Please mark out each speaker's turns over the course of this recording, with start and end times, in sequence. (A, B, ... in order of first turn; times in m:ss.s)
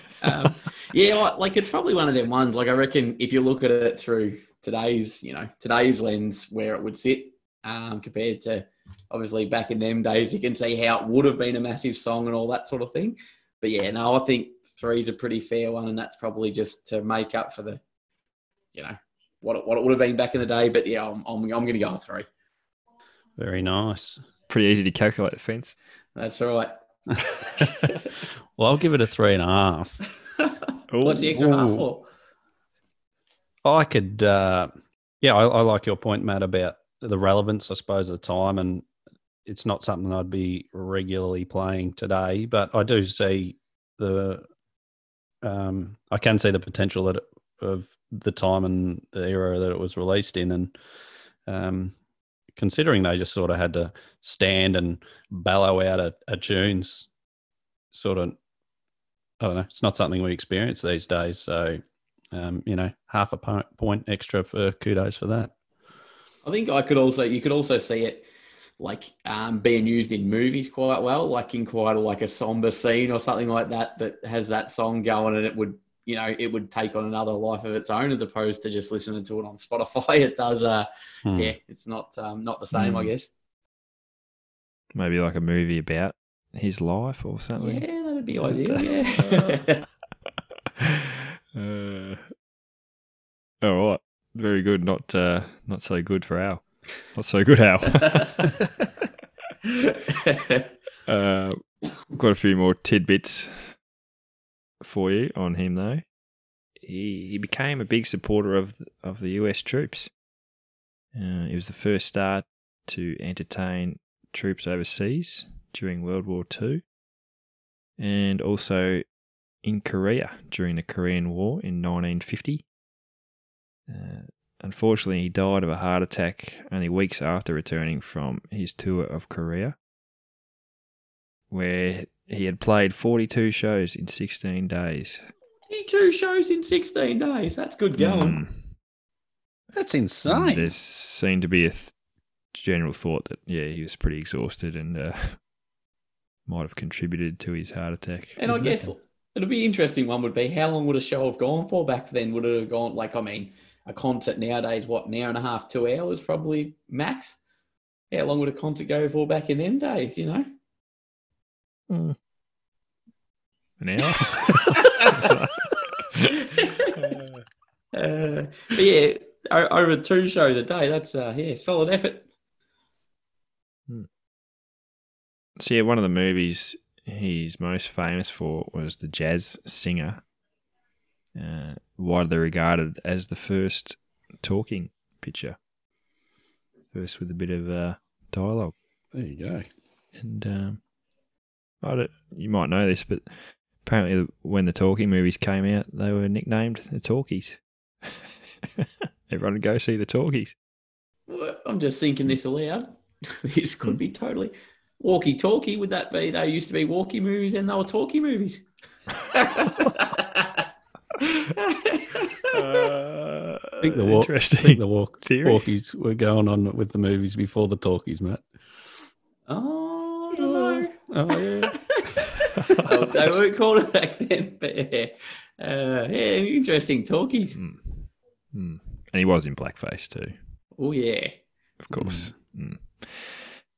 0:00.2-0:17.8 A
0:18.7-0:22.2 A
0:23.4-0:24.2 B
0:24.5-0:25.8 C
0:26.2-0:28.1 A
0:28.6-0:30.0 B
0:30.9-0:31.4 C
0:31.0-0:32.0 A
0:31.3-0:31.9 B
0:33.6-0:34.7 B
0:35.2-0:38.9 B
0:39.4-0:44.4 B
0:45.4-0:50.7 B
0:51.4-0:51.9 B
0:52.5-0:57.1 B
0:57.9-0:58.4 B
0:59.4-1:01.8 B
1:02.3-1:05.5 B
1:06.4-1:08.2 A
1:08.8-1:23.3 A
1:21.2-1:21.5 B
1:22.7-1:23.1 C
1:24.9-1:29.7 C
1:27.6-1:29.8 A
1:31.5-1:32.3 C
1:33.6-1:38.6 C
1:39.7-1:40.6 A
1:41.0-1:43.8 C
1:44.8-1:46.1 C
1:46.8-1:50.1 C
1:51.1-1:56.8 C
1:58.0-1:59.0 C
1:59.6-2:02.6 C
2:03.9-2:09.7 C
2:11.5-2:15.2 C
2:15.7-2:18.4 A
2:18.0-2:18.7 C
2:19.7-2:20.7 B
2:20.2-2:21.9 C
2:22.5-2:25.4 C
2:26.5-2:28.9 C
2:28.4-2:37.4 A
2:38.1-2:40.4 A
2:41.9-2:42.2 C
2:43.8-2:46.4 C
2:44.8-2:45.3 A
2:46.5-2:46.9 A
2:46.9-2:47.4 C
2:47.9-2:52.2 A
2:55.6-3:00.2 C
3:01.3-3:05.6 C
3:06.9-3:08.7 C
3:09.1-3:09.7 B
3:10.2-3:10.8 C
3:11.8-3:18.3 C
3:18.8-3:20.5 C
3:21.3-3:28.6 A
3:29.3-3:30.6 A
3:31.2-3:32.5 A
3:32.5-3:35.7 C
3:33.8-3:38.5 B
3:39.5-3:40.9 A
3:41.0-3:41.9 B
3:41.6-3:42.1 A
3:42.5-3:42.9 C
3:42.8-3:47.6 A
3:47.5-3:50.4 C
3:50.8-3:51.3 A
3:51.8-3:53.5 C
3:51.9-3:52.3 B